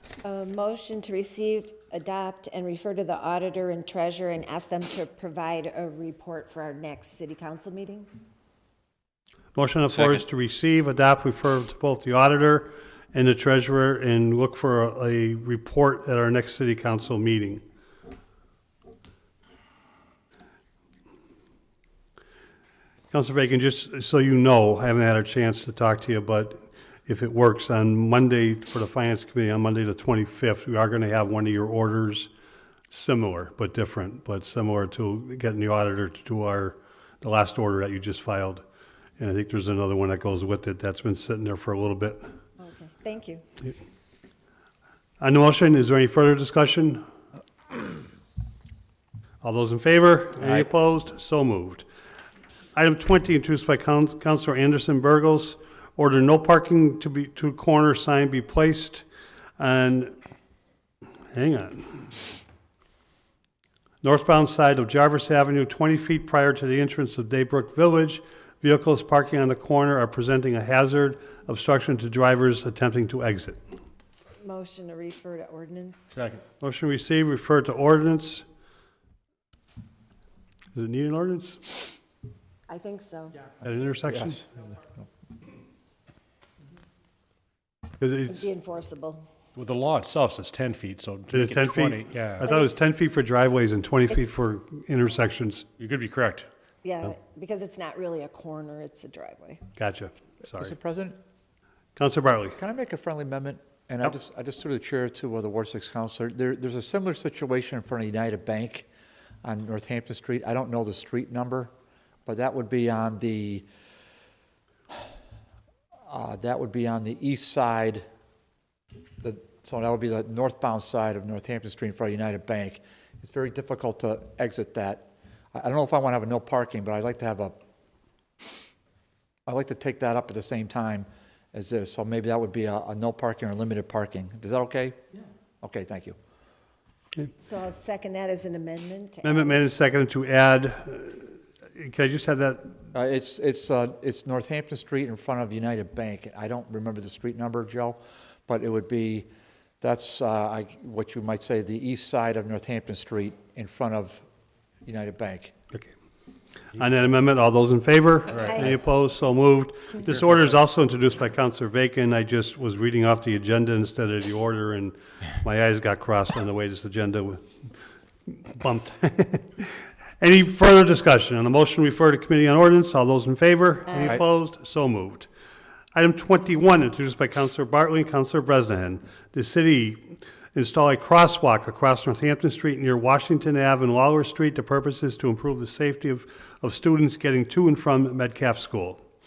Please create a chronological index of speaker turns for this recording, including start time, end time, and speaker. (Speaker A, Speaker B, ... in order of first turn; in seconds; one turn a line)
Speaker A: 0.2-8.1
Speaker B: 9.5-17.6
Speaker B: 23.1-32.3
Speaker B: 32.9-38.6
Speaker B: 39.2-42.2
Speaker A: 42.6-43.4
Speaker B: 45.2-47.0
Speaker B: 49.4-51.9
Speaker C: 50.4-50.6
Speaker B: 52.7-59.0
Speaker B: 59.6-60.1
Speaker B: 61.3-62.1
Speaker B: 64.0-73.6
Speaker A: 74.4-76.1
Speaker D: 76.1-76.4
Speaker B: 76.6-78.4
Speaker B: 80.7-81.9
Speaker A: 82.7-83.4
Speaker B: 83.6-84.4
Speaker B: 88.0-88.3
Speaker A: 88.3-89.2
Speaker D: 89.5-92.5
Speaker B: 91.3-95.6
Speaker A: 92.4-92.8
Speaker D: 95.8-96.5
Speaker A: 96.8-99.6
Speaker B: 99.8-100.7
Speaker C: 100.4-101.2
Speaker B: 102.0-102.6
Speaker C: 102.6-108.9
Speaker C: 109.4-111.7
Speaker C: 112.2-113.6
Speaker C: 116.1-118.0
Speaker C: 119.2-127.5
Speaker C: 129.5-135.0
Speaker C: 135.6-136.1
Speaker A: 137.4-139.7
Speaker B: 139.2-142.7
Speaker C: 142.9-149.3
Speaker C: 149.8-154.2
Speaker C: 154.8-155.5
Speaker B: 156.7-167.4
Speaker D: 158.3-158.7
Speaker A: 158.3-158.8
Speaker B: 168.4-175.3
Speaker B: 175.9-189.0